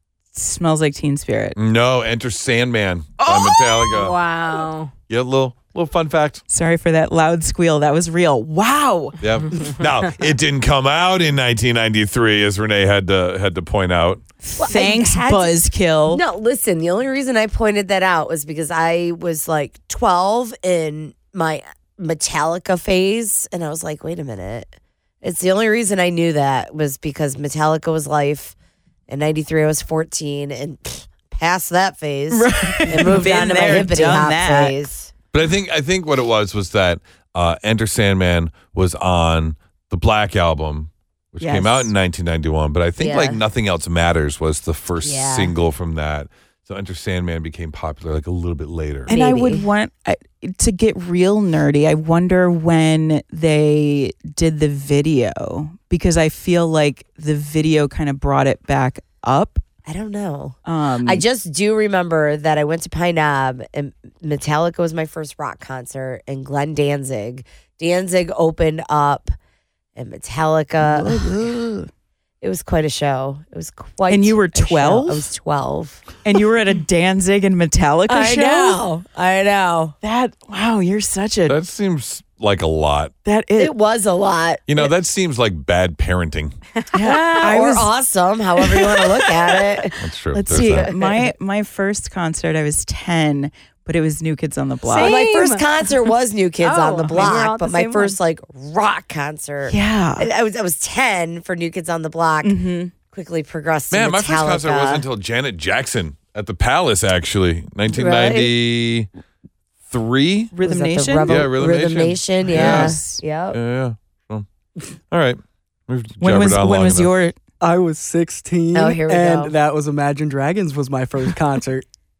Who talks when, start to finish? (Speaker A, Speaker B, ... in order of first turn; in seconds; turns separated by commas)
Speaker A: 0.3-1.6, Speaker B: 1.6-4.2, Speaker A: 3.2-4.0, Speaker C: 3.9-4.9, Speaker B: 5.1-6.4, Speaker A: 6.5-9.2, Speaker B: 9.2-14.2, Speaker A: 14.4-16.2, Speaker D: 14.6-15.6, Speaker D: 16.1-28.6, Speaker D: 29.1-35.1, Speaker A: 32.3-34.8, Speaker B: 35.3-49.1, Speaker A: 41.4-41.9, Speaker D: 43.0-43.4, Speaker D: 45.0-45.5, Speaker D: 49.1-49.7, Speaker A: 49.1-59.6, Speaker D: 59.9-69.3, Speaker A: 60.7-61.2, Speaker D: 70.0-71.6, Speaker A: 70.8-71.9, Speaker D: 72.4-76.1, Speaker A: 74.1-75.3, Speaker A: 76.2-78.8, Speaker D: 78.1-80.0, Speaker A: 80.0-81.6, Speaker B: 81.5-83.1, Speaker A: 83.2-83.7, Speaker D: 83.6-84.9, Speaker B: 84.7-86.5, Speaker A: 86.9-87.9, Speaker D: 86.9-91.3, Speaker B: 90.0-90.9, Speaker A: 90.3-95.2, Speaker C: 94.9-96.1, Speaker D: 94.9-105.1, Speaker C: 96.6-98.2, Speaker A: 99.7-100.3, Speaker A: 102.4-102.9, Speaker B: 103.9-109.1, Speaker D: 107.9-108.5, Speaker B: 109.9-110.5, Speaker A: 110.5-111.5, Speaker D: 110.6-113.6, Speaker B: 111.3-114.5, Speaker A: 112.5-113.2, Speaker B: 115.1-117.1, Speaker A: 116.2-117.4, Speaker E: 117.6-121.9, Speaker D: 118.7-119.5